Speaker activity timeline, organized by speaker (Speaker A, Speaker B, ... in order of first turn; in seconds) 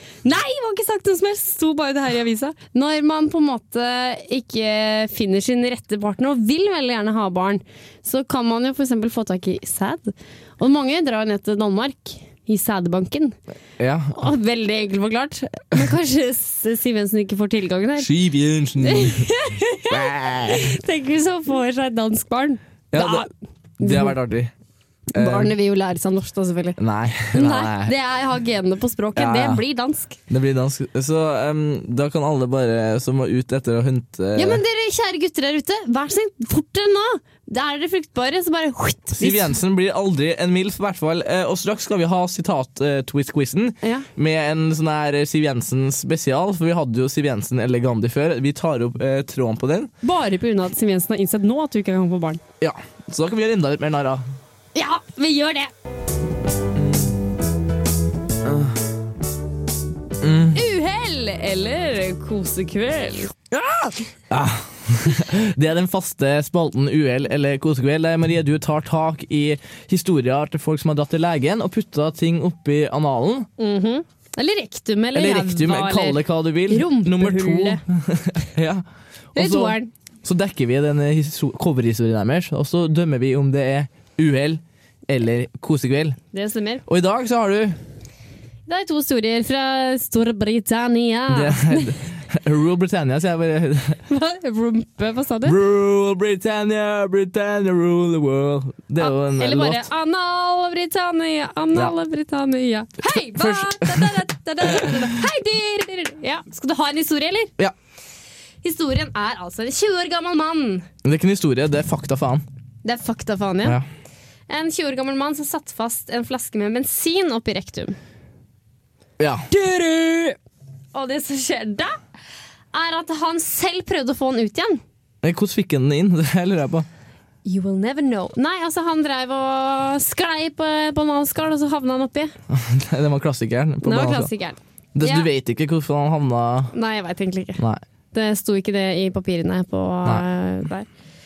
Speaker A: 0.2-13.4, 14.1-18.1, 18.8-23.3, 23.8-24.1, 25.1-26.8, 27.3-30.2, 34.4-39.5, 50.0-52.4, 54.7-55.7, 60.5-63.3, 73.6-77.8, 79.3-79.9, 86.3-86.8, 88.7-91.9, 94.1-95.6, 99.0-107.5, 108.6-110.9, 112.8-113.8, 114.5-118.0, 119.5-120.4, 120.9-121.9, 122.7-124.8, 127.4-132.3, 133.8-135.3, 136.7-137.6, 138.1-140.9
Speaker B: 13.8-14.2, 18.0-19.3, 19.9-20.8, 22.9-23.3, 23.8-24.5, 25.1-25.5, 26.8-27.9, 29.1-29.6, 30.3-34.6, 39.2-49.9, 52.6-54.2, 56.7-57.1, 58.4-58.8, 60.2-60.6, 63.5-73.5, 75.1-78.8, 79.3-86.2, 86.9-87.8, 91.3-94.0, 95.4-99.8, 103.1-105.1, 111.0-112.4, 119.2-119.5, 125.2-126.8, 132.5-134.3, 134.9-136.7